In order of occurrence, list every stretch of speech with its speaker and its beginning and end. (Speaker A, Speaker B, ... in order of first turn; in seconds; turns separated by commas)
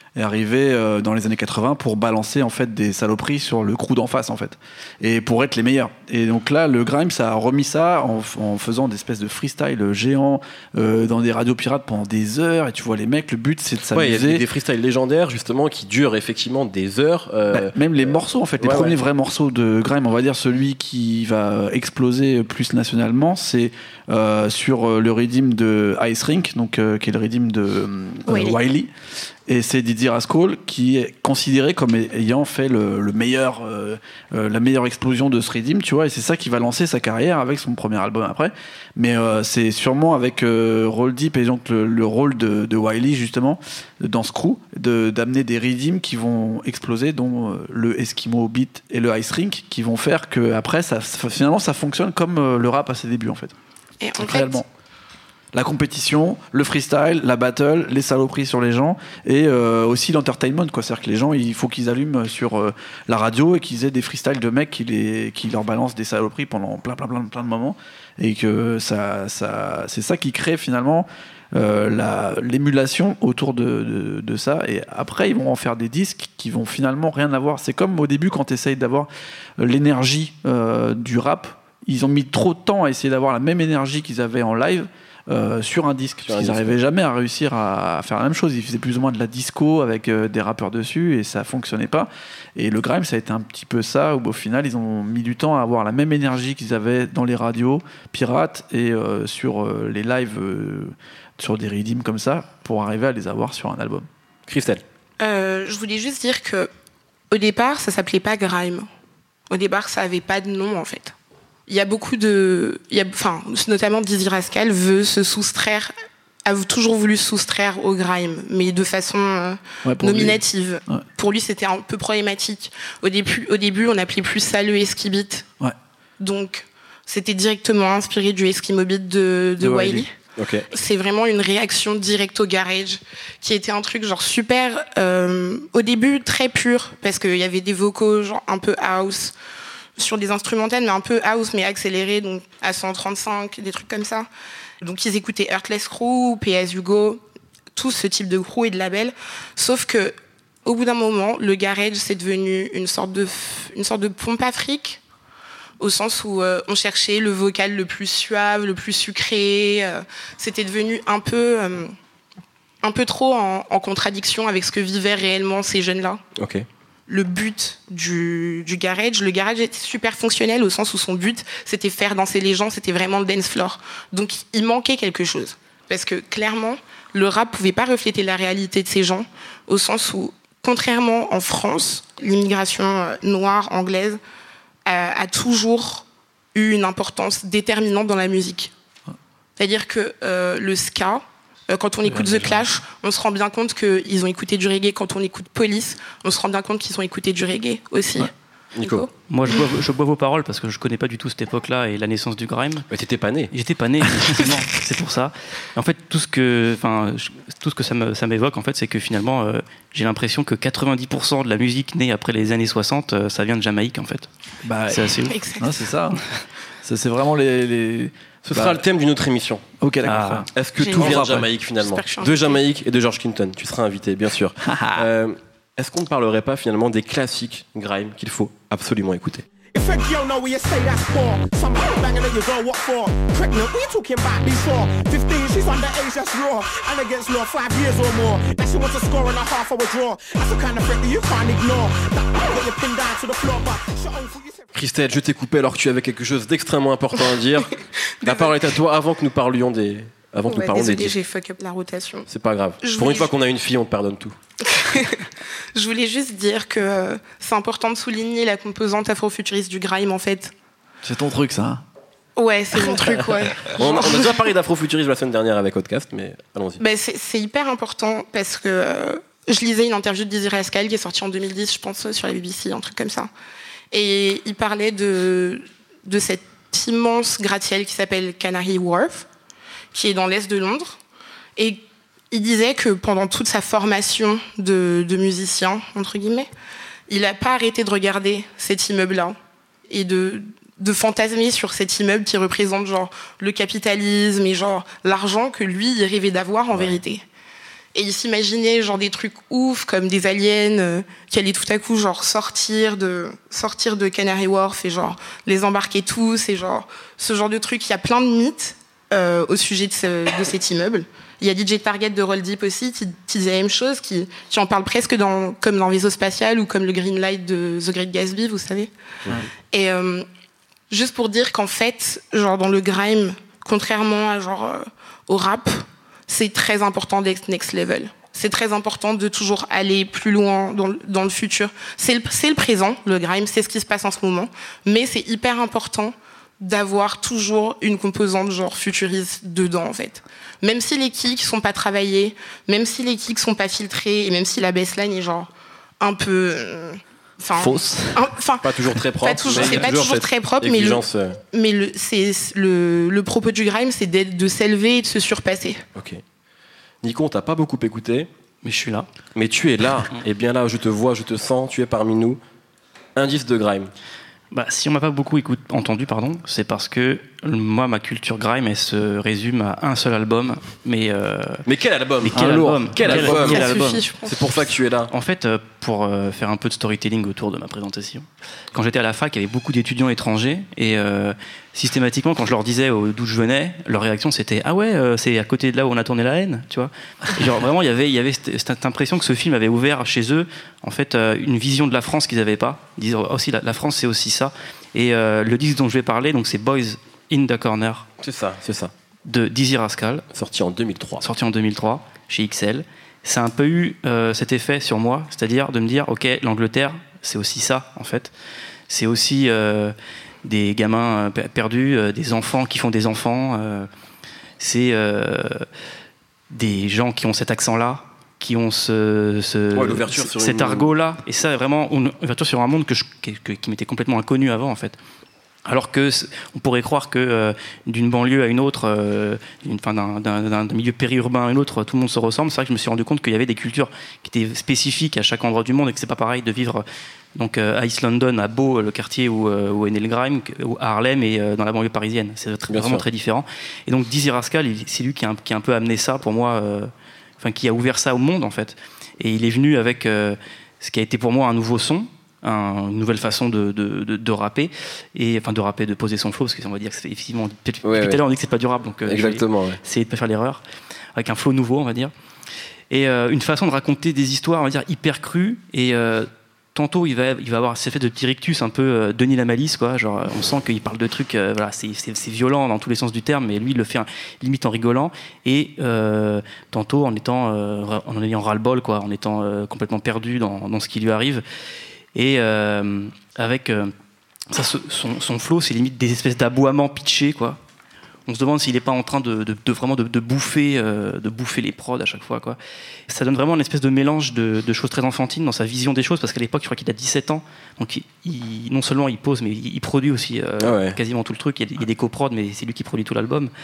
Speaker A: 0.1-14.4, Speaker B: 13.9-19.0, Speaker A: 17.5-28.9, Speaker C: 28.3-28.6, Speaker A: 29.5-53.5, Speaker C: 54.0-54.6, Speaker A: 54.2-54.6, Speaker A: 55.5-104.1, Speaker B: 86.2-86.8, Speaker B: 104.5-104.8, Speaker C: 105.2-106.7, Speaker C: 107.3-108.9, Speaker C: 109.5-111.1, Speaker C: 111.7-115.9, Speaker C: 116.4-125.5, Speaker A: 119.8-121.0, Speaker C: 126.2-130.1, Speaker A: 129.6-130.1, Speaker B: 130.4-130.7, Speaker C: 130.7-139.3, Speaker C: 140.0-144.3, Speaker C: 144.8-147.2, Speaker C: 147.7-155.0, Speaker C: 155.8-161.9, Speaker C: 162.8-166.2, Speaker B: 166.4-166.7, Speaker C: 167.1-184.2, Speaker C: 184.8-188.7, Speaker C: 189.6-199.6, Speaker A: 192.1-192.6, Speaker B: 198.7-199.1, Speaker D: 199.3-202.9, Speaker B: 202.9-203.5, Speaker D: 203.5-214.3, Speaker A: 214.6-216.2, Speaker D: 214.9-215.3, Speaker C: 215.3-215.9, Speaker A: 216.8-218.8, Speaker B: 218.4-219.6, Speaker A: 219.8-221.5, Speaker D: 220.0-220.4, Speaker B: 220.5-229.4, Speaker C: 220.8-222.6, Speaker A: 224.6-225.1, Speaker E: 229.7-244.7, Speaker B: 244.7-247.7, Speaker C: 248.2-248.6, Speaker B: 248.2-251.1, Speaker C: 250.5-252.3, Speaker B: 252.3-254.3, Speaker C: 252.8-253.3, Speaker C: 254.7-260.5, Speaker A: 261.0-261.8, Speaker C: 262.4-264.4, Speaker B: 263.7-266.8, Speaker C: 266.8-273.3, Speaker C: 273.9-279.3, Speaker C: 279.9-281.0, Speaker C: 281.6-286.5, Speaker C: 287.1-289.4, Speaker C: 289.9-297.2, Speaker B: 296.7-297.0, Speaker C: 297.9-318.9, Speaker C: 319.7-320.2, Speaker C: 320.9-355.8, Speaker A: 347.5-348.3, Speaker B: 348.6-351.4, Speaker B: 355.9-356.2, Speaker B: 357.0-358.3, Speaker D: 358.6-359.1, Speaker B: 359.3-362.4, Speaker B: 363.1-363.9, Speaker D: 364.5-371.6, Speaker B: 371.6-373.6, Speaker D: 372.2-373.9, Speaker A: 372.3-374.0, Speaker C: 373.5-374.4, Speaker B: 374.2-375.1, Speaker D: 375.1-398.1, Speaker B: 398.2-398.9, Speaker D: 399.2-400.2, Speaker B: 400.3-401.2, Speaker D: 401.2-408.3, Speaker D: 408.9-413.9, Speaker D: 414.6-415.6, Speaker D: 416.5-425.0, Speaker B: 419.7-420.9, Speaker D: 425.6-436.8, Speaker D: 437.3-460.6, Speaker B: 442.7-443.0, Speaker B: 457.8-458.2, Speaker B: 459.1-459.8, Speaker D: 461.1-462.1, Speaker D: 462.9-481.4, Speaker D: 482.1-483.9, Speaker D: 484.5-487.6, Speaker D: 488.3-492.6, Speaker D: 493.1-503.5, Speaker B: 500.6-501.0